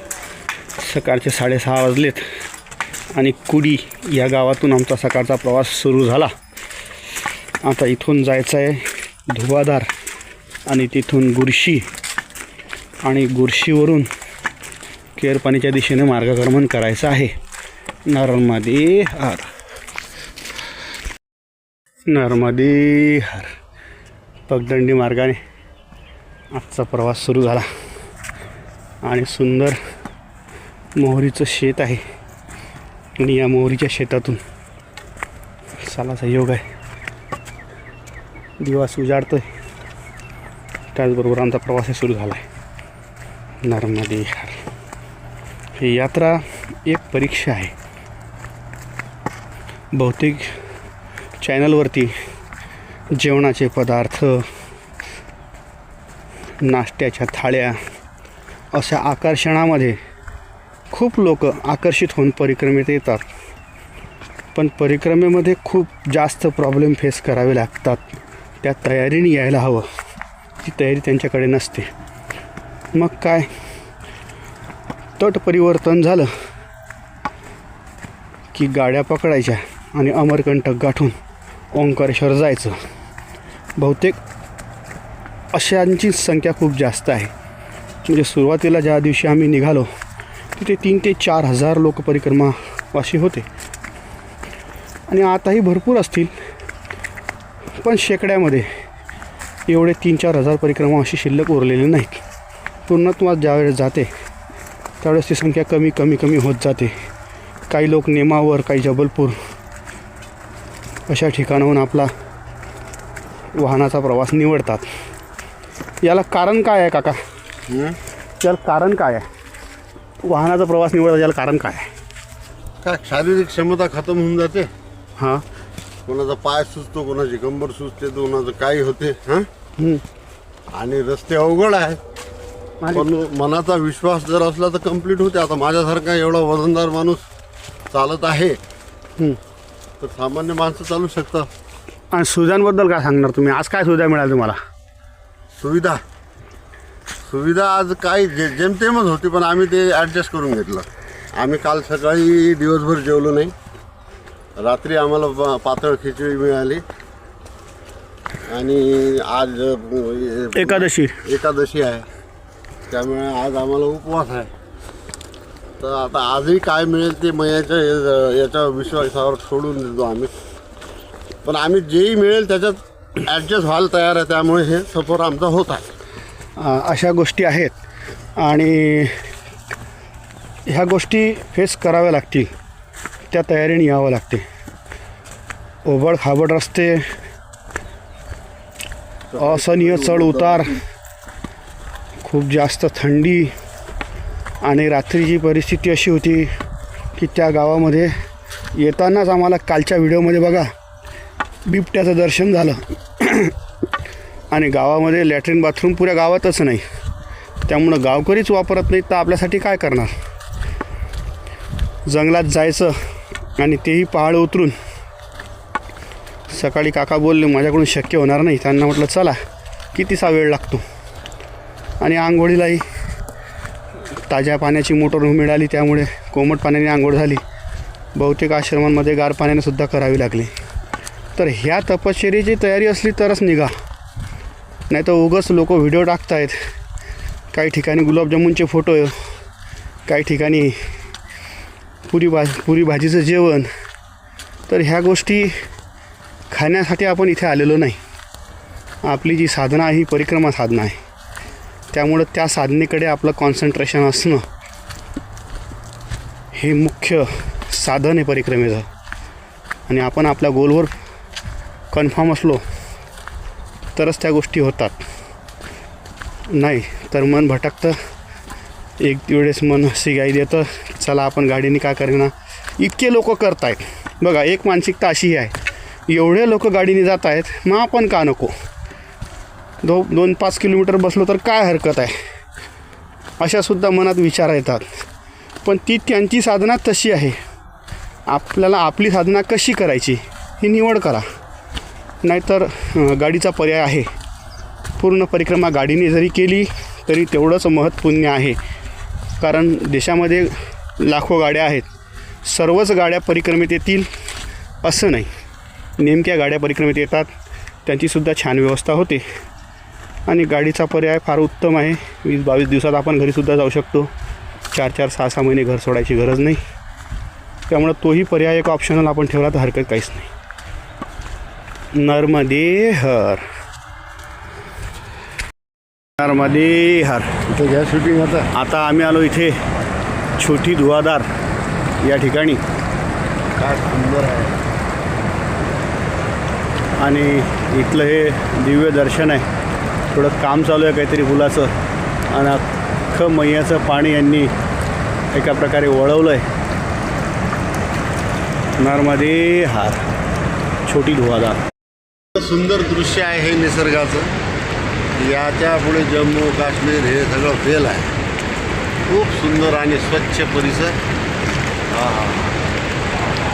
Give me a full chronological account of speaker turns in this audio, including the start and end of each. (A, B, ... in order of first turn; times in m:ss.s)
0:00.8-0:02.2 A
0:03.1-0:06.3 A
0:07.6-0:09.9 A
0:10.7-0:11.8 A
0:13.0-0:14.1 A
0:15.2-0:17.3 A
0:18.1-0:19.5 A
0:22.1-0:23.5 A
0:24.5-0:25.4 A
0:26.5-0:27.7 A
0:29.0-0:29.8 A
0:31.0-0:32.0 A
0:33.2-0:34.4 A
0:35.8-0:36.6 A
0:38.6-0:39.4 A
0:40.9-0:42.4 A
0:43.6-0:44.6 A
0:45.8-0:47.7 A
0:49.9-0:50.5 A
0:51.4-0:52.1 A
0:53.2-0:54.5 A
0:56.6-0:57.8 A
0:58.7-1:00.0 A
1:00.9-1:03.2 A
1:04.5-1:08.0 A
1:08.6-1:09.9 A
1:10.6-1:11.9 A
1:12.9-1:13.5 A
1:15.2-1:16.3 A
1:18.5-1:21.2 A
1:21.7-1:22.8 A
1:23.8-1:24.2 A
1:25.5-1:27.3 A
1:28.0-1:29.9 A
1:30.6-1:33.4 A
1:35.1-1:36.3 A
1:37.8-1:38.7 A
1:39.7-1:42.2 A
1:42.9-1:44.1 A
1:45.0-1:46.9 A
1:47.7-1:49.4 A
1:51.1-1:52.1 A
1:53.5-1:54.8 A
1:56.0-1:57.2 A
1:57.7-1:58.0 B
1:58.4-1:59.3 A
2:00.2-2:01.9 A
2:02.8-2:04.7 B
2:05.2-2:05.4 A
2:06.0-2:09.5 B
2:10.7-2:12.0 B
2:12.8-2:13.1 A
2:12.9-2:17.2 B
2:17.9-2:18.6 B
2:20.0-2:21.5 B
2:22.1-2:24.6 A
2:25.6-2:26.0 B
2:27.2-2:33.5 B
2:34.6-2:36.8 B
2:38.5-2:42.1 B
2:40.5-2:41.2 A
2:42.9-2:44.5 B
2:45.8-2:50.3 B
2:51.4-2:55.9 B
2:56.6-2:57.8 A
2:58.4-2:59.2 A
3:00.7-3:02.5 A
3:03.3-3:04.4 A
3:05.8-3:07.0 A
3:09.3-3:10.8 B
3:09.4-3:10.8 A
3:12.2-3:13.5 A
3:14.6-3:16.5 A
3:17.2-3:18.1 A
3:18.8-3:20.7 A
3:21.7-3:23.5 A
3:24.5-3:26.8 A
3:27.7-3:30.1 A
3:32.1-3:32.9 A
3:33.6-3:34.7 A
3:36.5-3:39.4 A
3:39.9-3:40.8 A
3:42.0-3:42.8 A
3:44.3-3:47.4 A
3:48.2-3:50.5 A
3:51.4-3:53.7 A
3:54.9-3:56.6 A
3:57.5-3:59.2 A
4:00.1-4:00.7 A
4:02.1-4:03.7 A
4:04.7-4:05.5 A
4:06.5-4:08.0 A
4:09.0-4:11.0 A
4:11.9-4:14.4 A
4:16.5-4:18.8 A
4:19.9-4:20.9 A
4:21.9-4:22.6 A
4:24.0-4:25.0 A
4:26.5-4:28.0 A
4:29.0-4:35.5 A
4:36.1-4:38.5 A
4:39.8-4:42.1 A
4:43.4-4:44.8 A
4:45.6-4:47.4 A
4:48.3-4:51.2 A
4:52.2-4:54.1 A
4:55.0-4:58.6 A
4:59.4-5:01.9 A
5:02.4-5:04.1 A
5:04.8-5:05.3 A
5:06.0-5:07.3 A
5:07.8-5:09.2 A
5:10.3-5:14.1 A
5:14.7-5:16.6 A
5:17.7-5:20.3 A
5:22.0-5:23.4 A
5:26.2-5:27.3 A
5:27.5-5:28.5 B
5:28.5-5:29.6 A
5:30.4-5:31.2 A
5:32.0-5:32.6 A
5:33.6-5:34.6 B
5:37.0-5:39.4 A
5:40.1-5:41.7 A
5:42.3-5:44.5 A
5:45.3-5:46.5 A
5:48.8-5:50.0 A
5:50.8-5:51.6 A
5:52.4-5:54.3 B
5:55.1-5:58.1 B
5:59.1-6:01.0 B
6:01.9-6:02.6 B